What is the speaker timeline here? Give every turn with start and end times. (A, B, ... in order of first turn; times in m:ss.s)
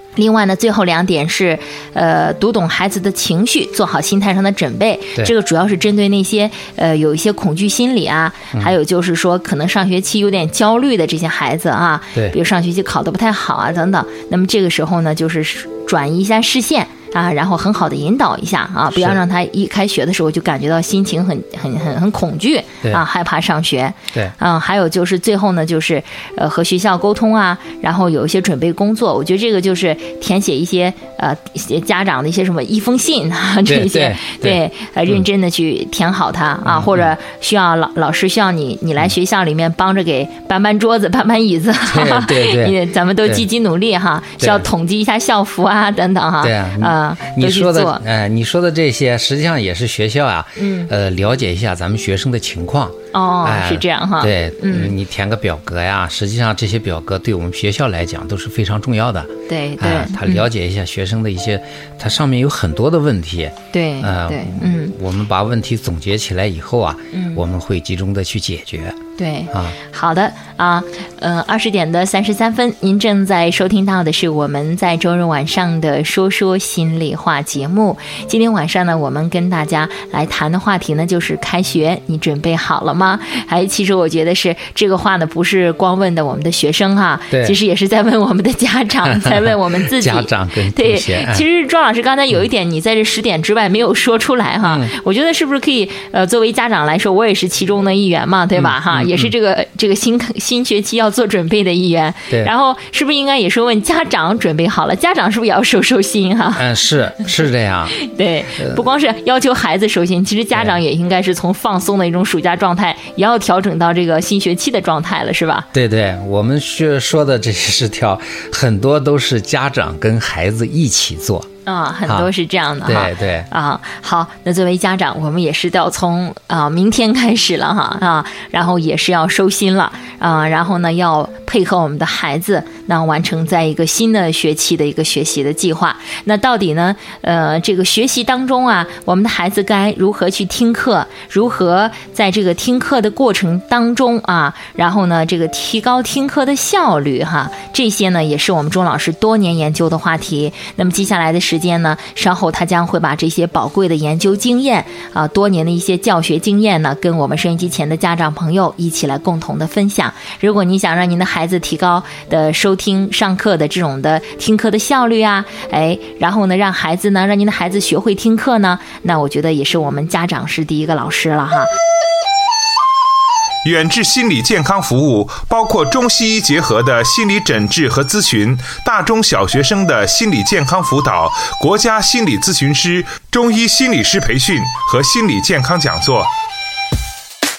0:00.2-0:48.0 A
0:18.9-0:19.2 B
0:33.6-0:35.2 B
0:36.6-0:37.1 B
0:41.8-0:43.4 B
0:44.4-0:44.7 B
0:46.4-1:09.0 B
0:50.6-0:50.9 A
0:53.1-0:54.9 A
0:59.5-1:00.5 A
1:03.7-1:04.9 A
1:07.1-1:07.4 A
1:09.2-1:46.6 A
1:27.3-1:27.6 B
1:29.1-1:31.4 B
1:34.6-1:34.9 B
1:38.6-1:39.3 B
1:46.6-1:48.0 B
1:48.0-1:55.7 A
1:48.6-1:48.8 B
1:55.7-2:01.5 B
2:01.6-2:51.7 A
2:02.8-2:03.5 B
2:53.6-3:06.3 C